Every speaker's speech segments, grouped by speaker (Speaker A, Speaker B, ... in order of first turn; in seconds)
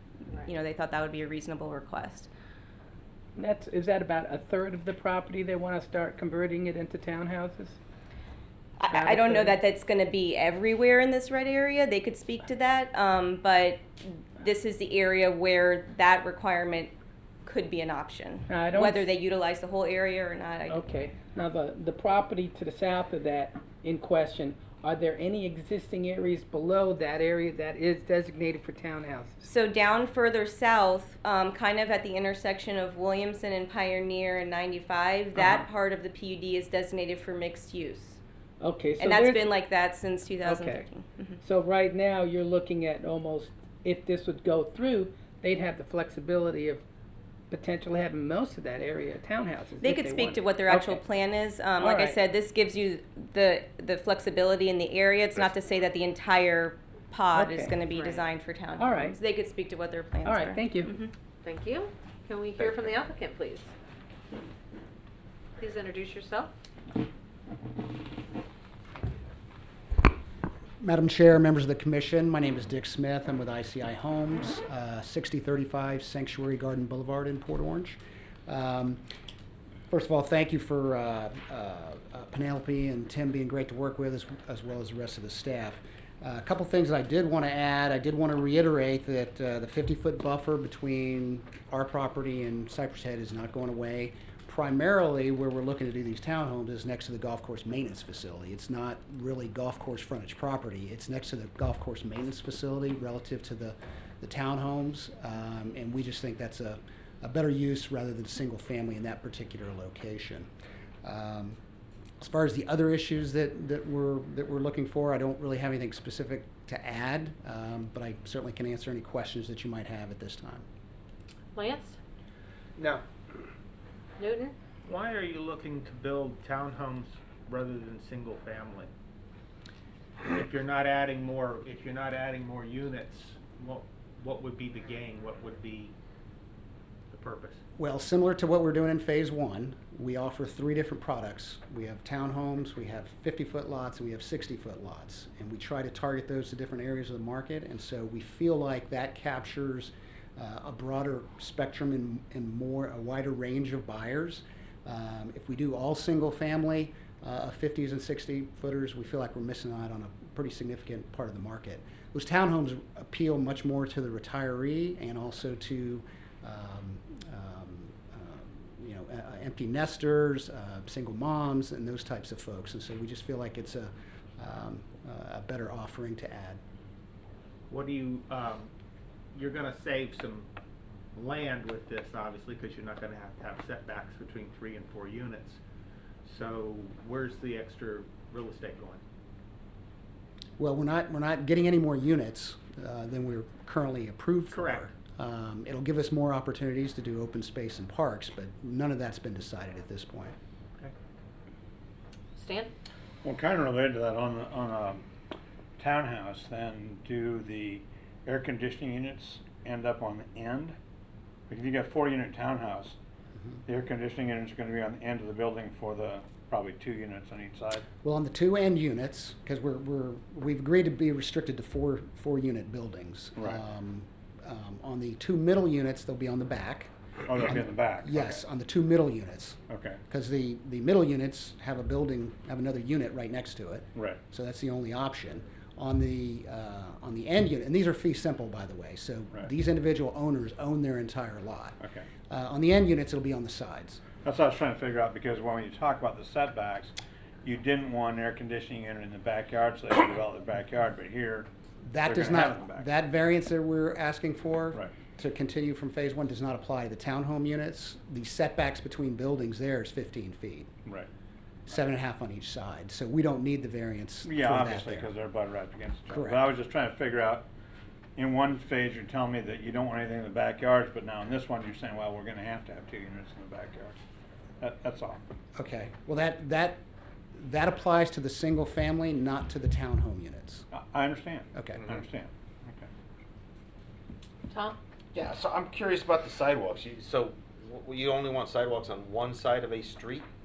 Speaker A: 0.3-2.3, 8.8-16.9, 17.4-20.8, 29.4-38.2, 39.0-41.4, 49.8-61.1
Speaker B: 3.4-7.8, 8.9-9.6, 18.5-19.1, 20.7-29.4, 38.6-39.6, 40.4-40.8, 41.4-46.8, 47.5-51.0, 51.8-52.2, 57.3-57.9, 58.8-59.2, 60.2-60.9
Speaker C: 57.9-58.2, 61.4-63.7, 65.6-66.5, 121.5-122.0, 124.2-124.5, 202.4-202.7, 284.5-284.8
Speaker D: 70.8-79.0, 79.9-110.5, 111.0-111.6, 112.2-120.7, 137.8-176.6, 190.6-200.3, 218.0-244.0, 251.8-260.7, 261.6-265.1, 266.1-266.4, 275.6-276.8, 277.3-280.7, 281.5-281.8
Speaker E: 122.8-123.0, 124.8-128.9, 130.2-135.9, 137.1-137.6, 177.7-178.7, 179.3-180.5, 181.1-185.6, 186.2-189.0, 194.5-194.9
Speaker F: 203.2-205.0, 205.8-210.8, 211.5-212.9, 213.7-217.8, 223.3-223.6, 227.2-228.4, 229.7-230.0, 241.8-242.1, 244.2-246.9, 247.4-251.5, 252.0-252.9, 264.2-267.5, 268.1-274.0, 274.6-275.2, 280.7-282.9
Speaker G: 285.1-290.2